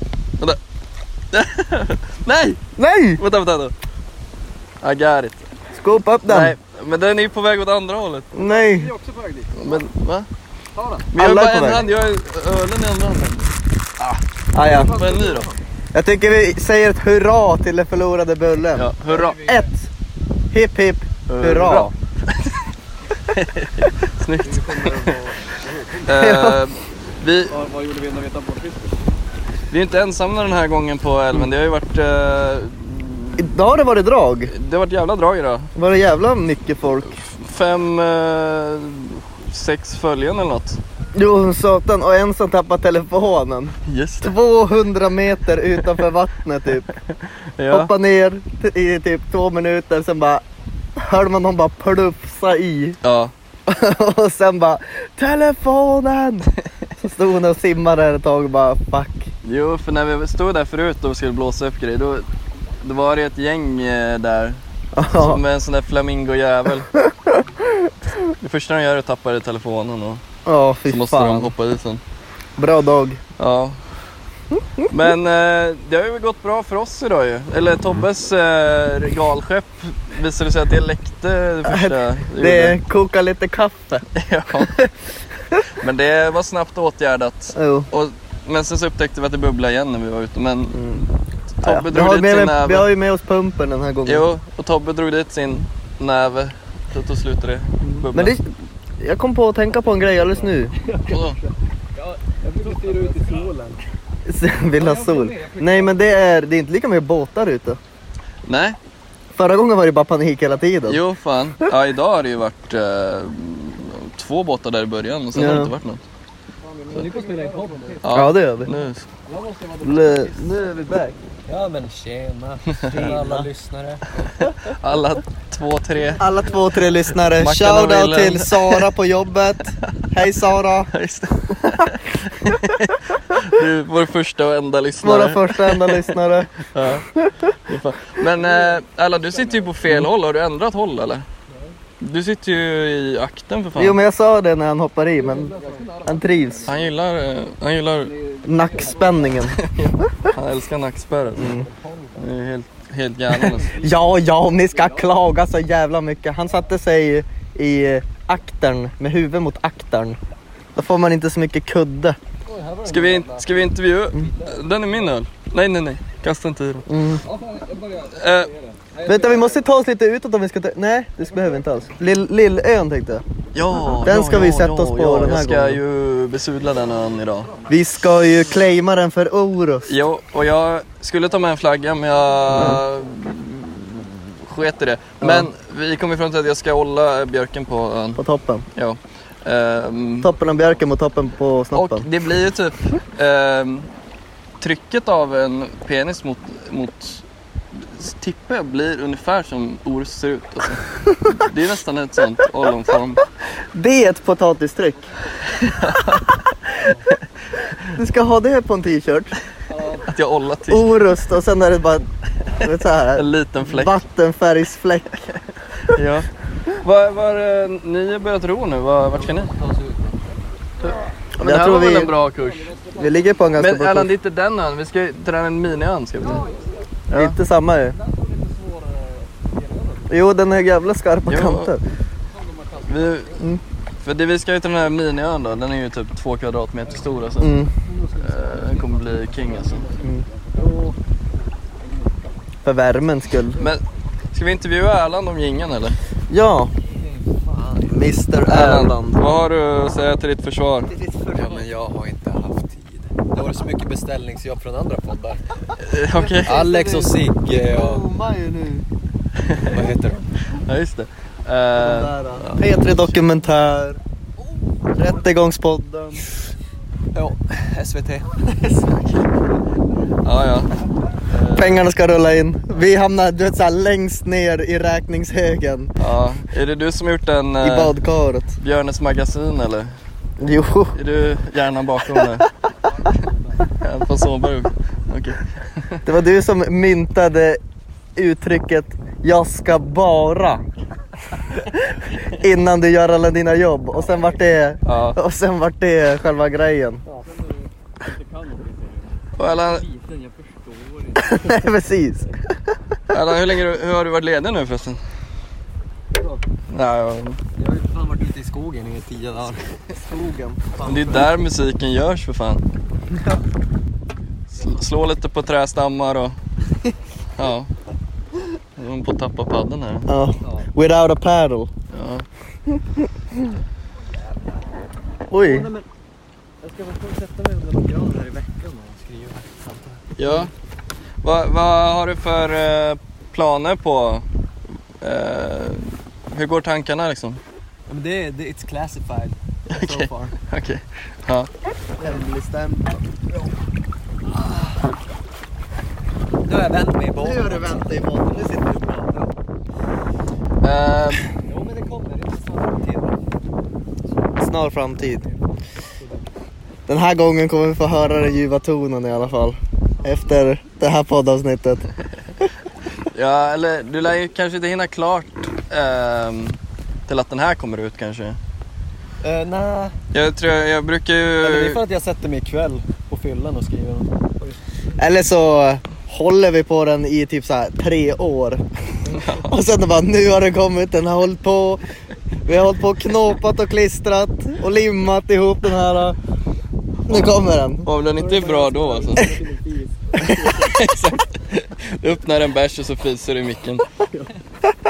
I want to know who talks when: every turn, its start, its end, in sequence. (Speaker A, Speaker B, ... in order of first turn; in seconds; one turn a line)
Speaker A: 1.3-2.6
Speaker B: 2.8-3.2
Speaker A: 3.2-3.7
Speaker A: 4.8-5.5
Speaker B: 5.7-6.5
Speaker A: 6.3-8.3
Speaker B: 8.3-8.9
Speaker C: 8.3-9.5
Speaker A: 9.5-10.3
Speaker C: 10.7-11.1
Speaker A: 11.1-15.5
Speaker B: 11.1-11.8
Speaker B: 14.5-14.9
Speaker C: 14.6-15.6
Speaker B: 15.9-19.9
Speaker A: 18.7-19.4
Speaker C: 19.1-19.7
Speaker B: 20.5-21.9
Speaker A: 21.3-22.5
Speaker A: 23.3-25.2
Speaker C: 24.4-26.0
Speaker A: 26.0-27.5
Speaker B: 26.1-26.6
Speaker C: 27.5-29.1
Speaker A: 29.7-33.5
Speaker B: 33.4-34.5
Speaker A: 34.5-35.7
Speaker B: 35.7-37.2
Speaker A: 37.2-40.8
Speaker B: 41.1-46.9
Speaker A: 43.9-44.4
Speaker A: 47.1-47.9
Speaker B: 47.7-50.4
Speaker B: 51.0-53.0
Speaker A: 53.0-53.3
Speaker B: 53.6-59.3
Speaker A: 59.4-62.3
Speaker A: 62.8-66.9
Speaker B: 64.9-65.4
Speaker B: 66.9-67.5
Speaker A: 68.4-70.2
Speaker B: 70.4-71.5
Speaker A: 70.9-72.0
Speaker B: 72.6-73.2
Speaker A: 73.4-73.8
Speaker A: 74.9-82.8
Speaker B: 81.6-84.9
Speaker A: 84.1-84.8
Speaker A: 85.8-90.8
Speaker B: 87.5-87.9
Speaker B: 90.7-91.0
Speaker A: 91.6-92.9
Speaker B: 91.6-94.2
Speaker A: 94.0-98.4
Speaker B: 97.8-98.5
Speaker B: 99.0-100.7
Speaker D: 100.2-101.5
Speaker A: 101.1-101.4
Speaker C: 101.9-103.5
Speaker D: 102.4-103.8
Speaker B: 104.2-107.8
Speaker C: 104.7-106.2
Speaker A: 108.5-108.8
Speaker B: 109.3-111.0
Speaker A: 110.8-116.0
Speaker B: 115.3-115.7
Speaker C: 116.6-118.1
Speaker D: 116.9-118.1
Speaker A: 118.0-119.0
Speaker B: 118.1-118.7
Speaker C: 119.3-120.6
Speaker B: 119.8-121.2
Speaker D: 121.5-124.0
Speaker A: 122.7-123.1
Speaker B: 122.9-123.5
Speaker A: 124.4-126.3
Speaker B: 126.2-130.9
Speaker A: 127.2-128.9
Speaker A: 130.9-136.1
Speaker B: 135.0-137.5
Speaker A: 136.7-137.1
Speaker A: 137.7-141.2
Speaker C: 138.3-139.8
Speaker D: 141.5-141.7
Speaker A: 142.0-144.0
Speaker B: 143.8-145.5
Speaker D: 145.2-146.1
Speaker C: 145.2-147.0
Speaker B: 146.0-146.7
Speaker A: 146.6-148.1
Speaker C: 148.0-149.5
Speaker B: 148.4-149.6
Speaker A: 149.5-151.5
Speaker B: 151.3-151.7
Speaker D: 151.4-152.2
Speaker A: 152.2-153.7
Speaker B: 153.3-160.2
Speaker C: 153.4-154.2
Speaker C: 154.7-155.2
Speaker B: 160.7-162.2
Speaker D: 162.5-163.0
Speaker C: 162.6-164.6
Speaker A: 162.8-166.8
Speaker B: 166.9-167.2
Speaker C: 167.2-169.6
Speaker A: 168.1-168.5
Speaker B: 169.1-173.2
Speaker A: 173.5-177.5
Speaker B: 174.0-175.8
Speaker C: 176.6-177.8
Speaker B: 177.7-179.9
Speaker A: 179.9-188.2
Speaker B: 182.5-182.8
Speaker B: 185.2-185.5
Speaker B: 188.2-188.7
Speaker A: 188.7-190.3
Speaker B: 190.2-192.1
Speaker A: 191.7-193.9
Speaker A: 194.6-203.2
Speaker B: 203.7-205.1
Speaker A: 205.7-206.4
Speaker B: 207.9-209.3
Speaker C: 209.7-210.1
Speaker A: 210.1-211.0
Speaker B: 210.7-215.4
Speaker A: 212.6-214.0
Speaker A: 215.9-216.3
Speaker A: 216.8-219.5
Speaker C: 219.2-220.2
Speaker A: 220.8-222.7
Speaker B: 221.4-222.1
Speaker C: 222.0-223.6
Speaker B: 222.9-224.1
Speaker A: 223.6-226.4
Speaker C: 226.2-226.9
Speaker A: 227.1-227.4
Speaker B: 227.1-228.0
Speaker C: 227.9-230.1
Speaker B: 230.1-231.8
Speaker A: 231.3-231.7
Speaker C: 232.3-233.6
Speaker A: 232.9-233.4
Speaker A: 234.0-237.6
Speaker C: 236.9-237.1
Speaker B: 237.4-237.7
Speaker D: 237.8-240.9
Speaker A: 238.2-239.8
Speaker C: 238.6-240.9
Speaker C: 241.8-242.3
Speaker B: 242.6-243.6
Speaker A: 243.6-246.0
Speaker B: 246.3-246.7
Speaker D: 247.0-247.9
Speaker B: 247.8-249.2
Speaker A: 248.5-250.9
Speaker C: 251.3-251.7
Speaker B: 251.3-251.6
Speaker D: 251.3-252.5
Speaker D: 253.3-255.4
Speaker A: 255.8-256.6
Speaker B: 256.2-258.9
Speaker D: 256.4-258.0
Speaker A: 259.4-259.7
Speaker D: 259.7-260.2
Speaker A: 260.5-262.6
Speaker B: 261.8-264.0
Speaker B: 264.9-266.2
Speaker D: 267.2-268.2
Speaker A: 268.8-269.2
Speaker A: 270.2-270.7
Speaker A: 271.3-271.8
Speaker B: 271.5-275.9
Speaker A: 276.0-277.9
Speaker B: 277.6-278.6
Speaker A: 278.6-279.9
Speaker B: 280.4-281.0
Speaker A: 280.9-282.5
Speaker B: 282.2-282.4
Speaker D: 283.1-283.6
Speaker A: 283.8-286.0
Speaker B: 286.0-287.6
Speaker B: 288.1-290.6
Speaker B: 291.5-297.0
Speaker C: 294.0-294.4
Speaker A: 294.8-295.2
Speaker C: 297.1-301.4
Speaker A: 299.4-299.8
Speaker B: 301.2-302.5
Speaker A: 303.1-305.0
Speaker D: 306.1-306.4
Speaker A: 306.7-307.4
Speaker D: 307.6-309.6
Speaker B: 309.9-310.7
Speaker D: 310.8-311.2
Speaker A: 310.8-312.6
Speaker A: 314.5-316.4
Speaker A: 317.4-317.7
Speaker A: 318.8-320.1
Speaker B: 320.1-321.7
Speaker A: 321.9-322.2
Speaker B: 325.3-325.7
Speaker D: 325.4-325.9
Speaker D: 326.6-330.4
Speaker A: 330.1-330.5
Speaker A: 331.2-334.2
Speaker A: 335.0-337.4
Speaker D: 337.9-339.4
Speaker A: 339.7-341.5
Speaker B: 339.7-340.3
Speaker B: 342.0-342.9
Speaker D: 344.3-344.8
Speaker D: 346.4-348.1
Speaker B: 347.1-349.1
Speaker A: 350.6-351.2
Speaker D: 351.5-353.2
Speaker B: 354.4-355.3
Speaker D: 356.0-356.2
Speaker B: 356.9-361.9
Speaker A: 363.1-368.4
Speaker D: 369.2-369.9
Speaker A: 370.1-371.8
Speaker D: 371.4-374.6
Speaker B: 375.0-378.6
Speaker A: 379.1-379.5
Speaker B: 379.3-381.8
Speaker B: 382.4-386.2
Speaker B: 387.1-387.9
Speaker A: 387.1-389.3
Speaker D: 388.0-390.7
Speaker B: 390.2-390.5
Speaker A: 390.2-393.8